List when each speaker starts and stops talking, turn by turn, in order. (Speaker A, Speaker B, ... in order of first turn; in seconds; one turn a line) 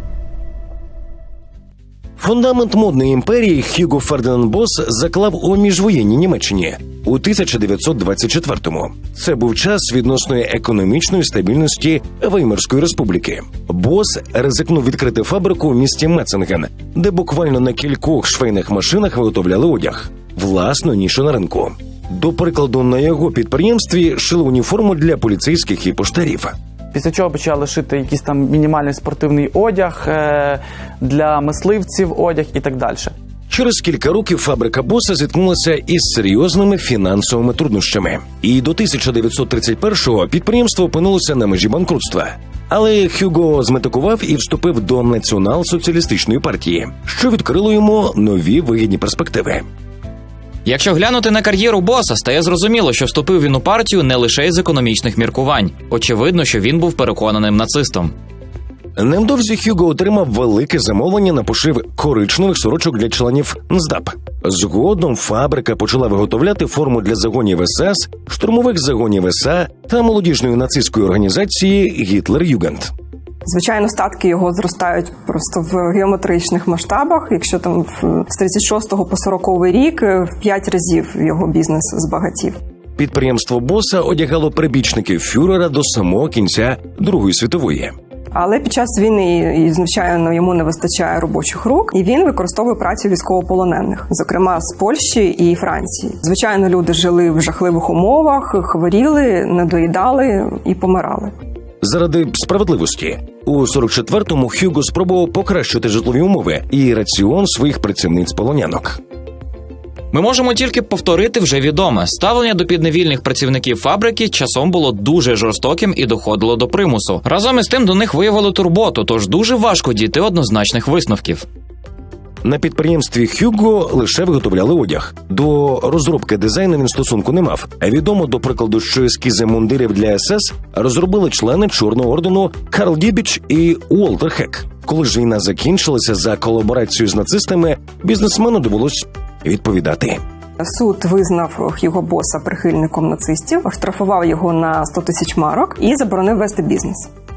Speaker A: 2.2-26.6
Speaker B: 26.9-33.1
Speaker A: 33.5-49.7
Speaker C: 50.7-58.1
Speaker A: 59.0-72.9
Speaker D: 73.5-82.6
Speaker A: 83.0-88.0
Speaker D: 88.3-101.3
Speaker A: 101.8-109.0
Speaker C: 110.1-121.5
Speaker A: 122.4-140.2
Speaker D: 140.6-147.1